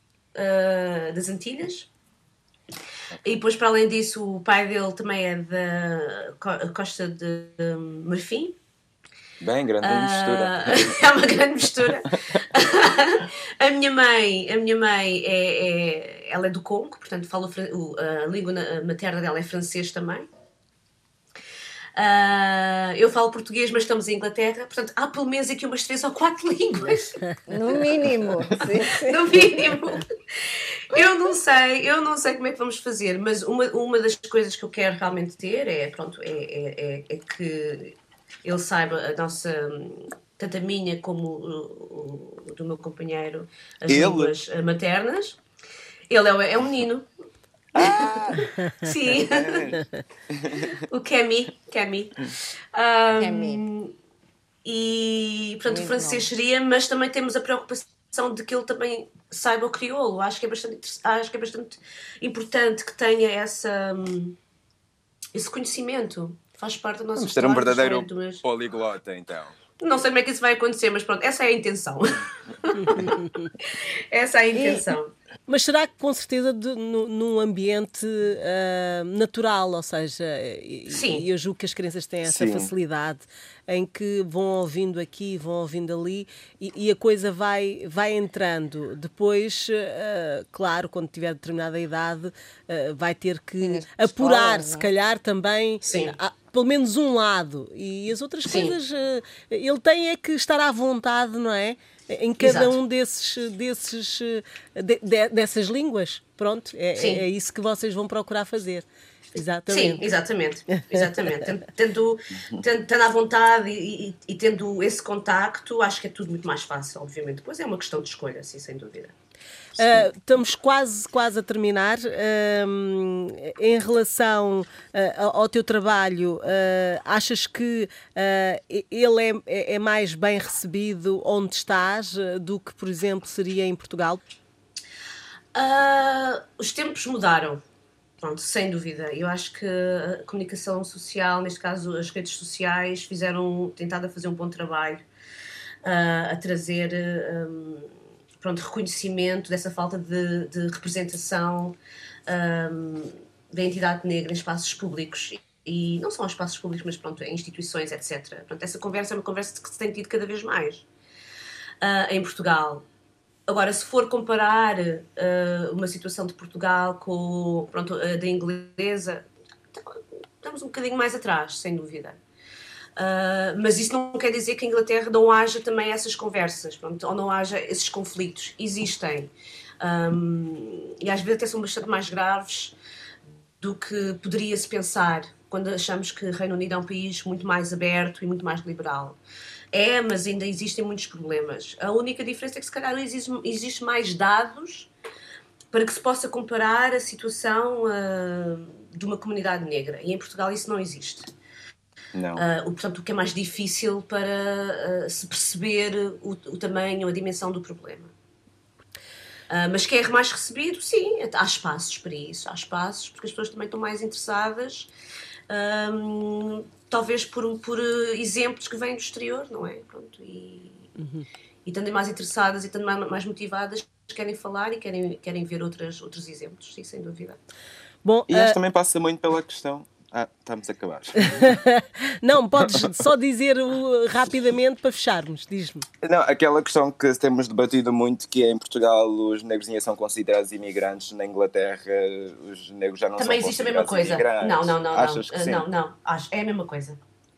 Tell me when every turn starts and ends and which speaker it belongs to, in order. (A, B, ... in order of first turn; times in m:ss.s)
0:00.4-0:01.9 A
0:03.2-0:08.6 A
0:09.4-0:11.0 B
0:09.8-0:20.3 A
0:22.0-0:27.4 A
0:27.5-0:29.7 C
0:28.9-0:45.4 A
0:43.9-0:44.3 B
0:46.1-0:47.1 A
0:47.8-0:48.6 B
0:47.8-0:49.8 A
0:49.2-0:50.7 B
0:50.9-0:53.9 A
0:53.2-0:53.6 C
0:54.6-1:04.4 A
0:55.7-0:56.3 C
1:05.3-1:08.4 A
1:07.2-1:09.5 B
1:09.8-1:13.2 A
1:12.9-1:13.5 D
1:13.7-1:15.1 A
1:14.6-1:14.9 C
1:15.5-1:50.0 D
1:20.9-1:21.2 A
1:22.3-1:22.7 B
1:33.6-1:34.9 C
1:35.8-1:36.2 A
1:38.5-1:38.8 A
1:42.4-1:42.7 A
1:47.0-1:47.2 A
1:49.7-1:59.1 A
1:50.7-1:51.4 D
1:59.8-2:14.2 D
2:15.6-2:17.6 A
2:18.2-2:25.0 A
2:25.8-2:40.9 A
2:41.8-2:42.8 A
2:43.5-2:52.2 A
2:53.0-3:02.8 A
3:03.6-3:09.2 A
3:09.7-3:14.9 A
3:15.7-3:21.3 A
3:22.2-3:22.4 B
3:22.4-3:28.1 A
3:29.5-3:34.9 A
3:35.5-3:40.9 A
3:41.0-3:41.3 D
3:41.7-3:47.4 A
3:48.0-3:48.6 D
3:48.3-3:51.6 B
3:51.3-3:55.8 D
3:52.6-3:53.0 B
3:56.0-4:05.6 B
4:03.2-4:07.0 A